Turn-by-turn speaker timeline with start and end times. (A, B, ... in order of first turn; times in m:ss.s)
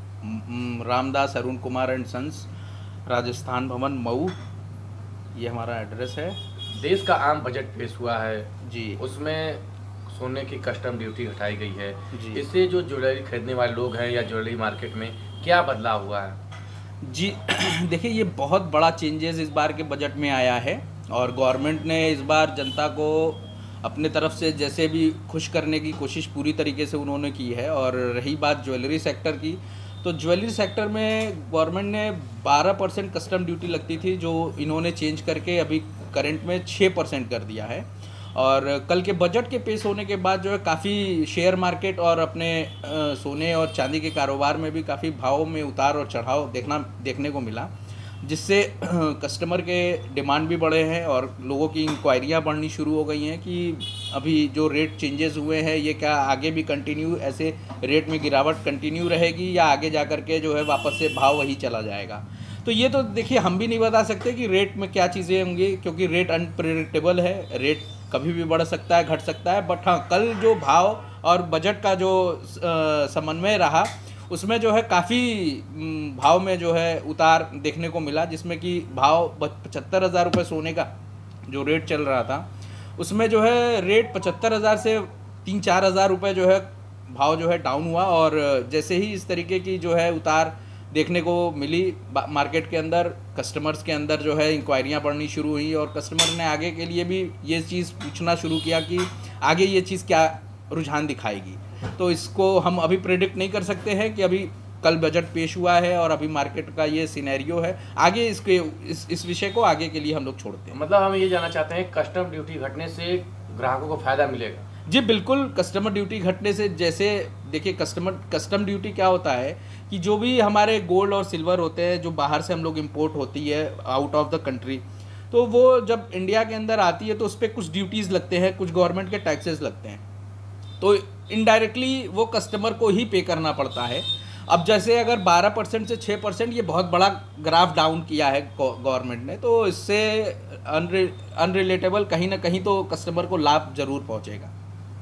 0:00.2-0:02.5 A
0:03.1-0:04.4 A
0:05.3-0:06.4 A
0:06.7-0:08.5 B
0:08.6-0:09.0 A
0:09.0-0:16.4 B
0:12.1-0:12.4 A
0:17.0-0:47.7 A
0:48.2-1:20.9 A
1:21.5-1:50.8 A
1:50.7-1:54.6 B
1:54.9-2:10.0 A
2:10.8-2:24.5 A